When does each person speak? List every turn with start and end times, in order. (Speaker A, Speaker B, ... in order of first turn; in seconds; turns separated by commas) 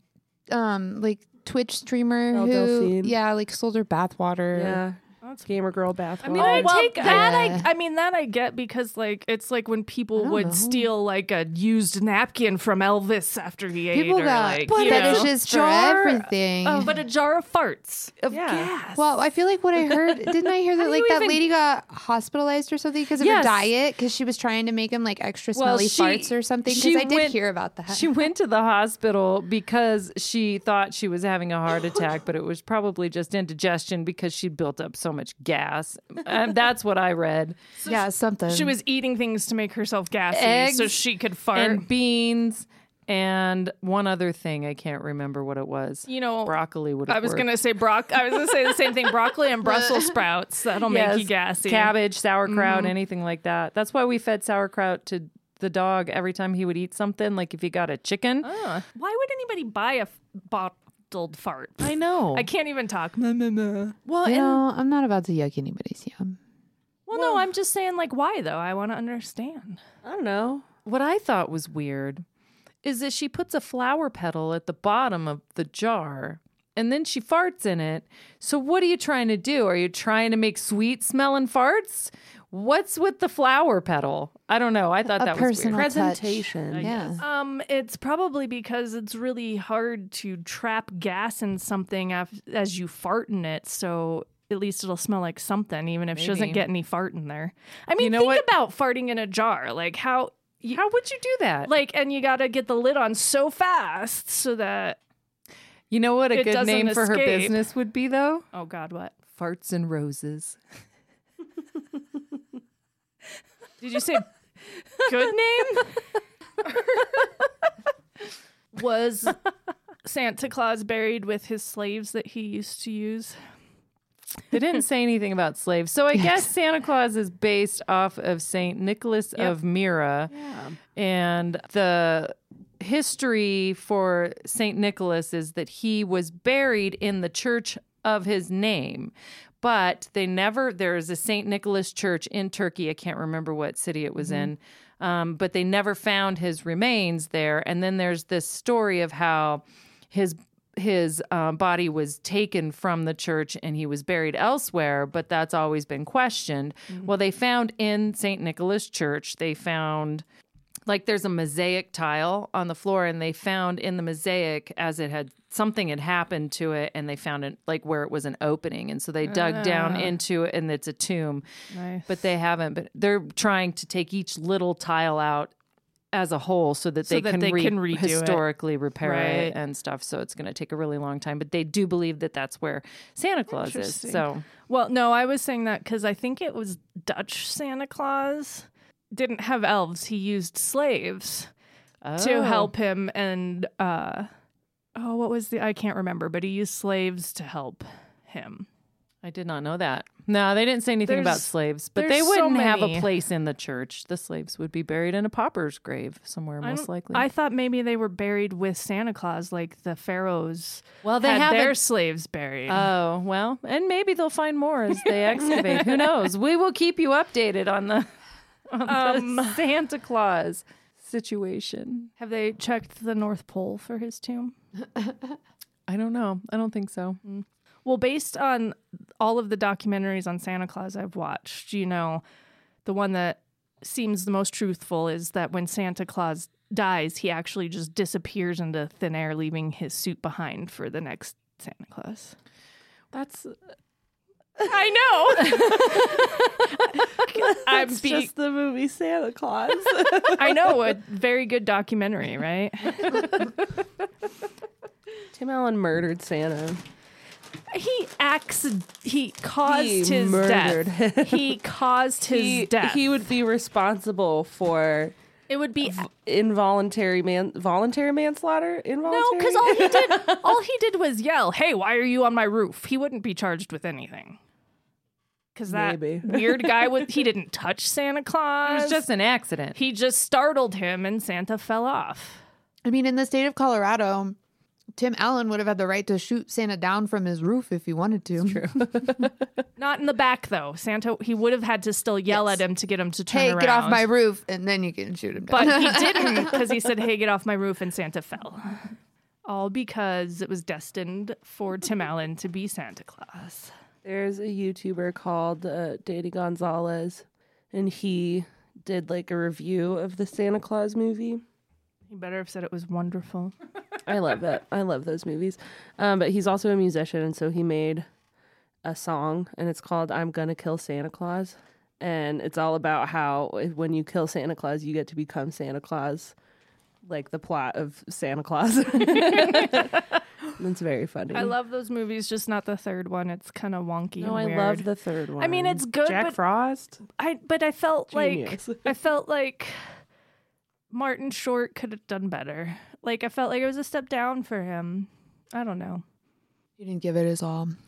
Speaker A: 0.5-4.8, Speaker B: 2.3-3.1, Speaker B: 4.5-7.3, Speaker C: 6.2-7.3, Speaker D: 6.2-19.2, Speaker A: 6.8-7.7, Speaker A: 10.2-10.9, Speaker A: 13.9-17.0, Speaker B: 14.7-15.7, Speaker C: 14.8-15.2, Speaker B: 18.3-18.7, Speaker A: 18.9-28.1, Speaker D: 20.0-21.4, Speaker C: 23.2-23.7, Speaker C: 25.6-27.4, Speaker C: 27.9-37.6, Speaker D: 37.8-41.9, Speaker A: 37.9-38.8, Speaker A: 40.3-40.9, Speaker C: 41.5-47.5, Speaker D: 46.1-51.9, Speaker C: 50.9-58.5, Speaker D: 52.5-52.9, Speaker D: 58.4-64.6, Speaker C: 61.8-62.5, Speaker A: 64.2-66.4, Speaker D: 67.1-69.8, Speaker C: 67.1-67.4, Speaker B: 70.0-70.7, Speaker C: 70.9-72.2, Speaker C: 72.8-85.9, Speaker A: 85.2-87.2, Speaker B: 85.7-86.9, Speaker C: 86.7-87.2, Speaker D: 87.2-100.8, Speaker C: 96.2-96.6, Speaker C: 98.0-98.5, Speaker C: 100.7-101.7, Speaker D: 101.7-105.0, Speaker C: 105.9-108.4, Speaker D: 106.3-107.6, Speaker D: 108.5-109.2, Speaker C: 109.3-110.6, Speaker D: 113.8-114.3, Speaker D: 115.0-116.0, Speaker D: 116.6-117.1, Speaker D: 118.7-119.4, Speaker D: 120.0-123.4, Speaker C: 124.5-130.3, Speaker B: 130.3-130.8, Speaker C: 130.9-160.2, Speaker A: 144.2-144.5, Speaker C: 160.9-171.4, Speaker D: 169.2-170.2, Speaker D: 171.7-172.1, Speaker C: 172.1-175.5, Speaker C: 176.1-184.4, Speaker D: 177.1-178.4, Speaker D: 179.0-179.6, Speaker D: 183.5-191.5, Speaker C: 192.0-192.7, Speaker D: 192.2-194.3, Speaker D: 195.0-198.7, Speaker C: 199.2-207.3, Speaker D: 201.1-203.1, Speaker D: 206.6-212.9, Speaker C: 211.0-211.8, Speaker C: 212.7-218.1, Speaker D: 215.4-215.8, Speaker C: 218.7-222.1, Speaker D: 218.9-219.6, Speaker D: 222.2-224.6, Speaker C: 225.9-227.2, Speaker D: 227.2-232.2, Speaker D: 232.8-242.4, Speaker C: 243.1-243.5, Speaker D: 244.6-248.3, Speaker B: 247.3-250.9, Speaker D: 250.3-253.5, Speaker B: 255.3-256.8, Speaker D: 257.7-263.0, Speaker B: 259.6-261.6, Speaker B: 262.2-265.1, Speaker D: 265.5-266.1, Speaker B: 265.8-270.5, Speaker D: 269.1-274.4, Speaker D: 275.6-279.0, Speaker B: 275.7-276.9, Speaker C: 278.6-279.8, Speaker D: 279.8-282.4, Speaker A: 282.9-284.4, Speaker A: 285.0-289.2, Speaker B: 288.4-289.4, Speaker D: 289.8-294.1, Speaker A: 292.3-292.6, Speaker A: 293.3-296.6, Speaker D: 295.5-298.9, Speaker D: 299.5-303.7, Speaker B: 304.0-311.4, Speaker D: 312.1-313.6, Speaker B: 314.1-318.1, Speaker B: 318.9-326.3, Speaker B: 327.1-330.0, Speaker D: 329.0-330.1, Speaker B: 330.6-331.5, Speaker D: 331.3-336.4, Speaker B: 334.2-337.0, Speaker D: 337.1-339.8, Speaker B: 338.1-338.9, Speaker D: 340.9-346.0, Speaker A: 346.8-347.7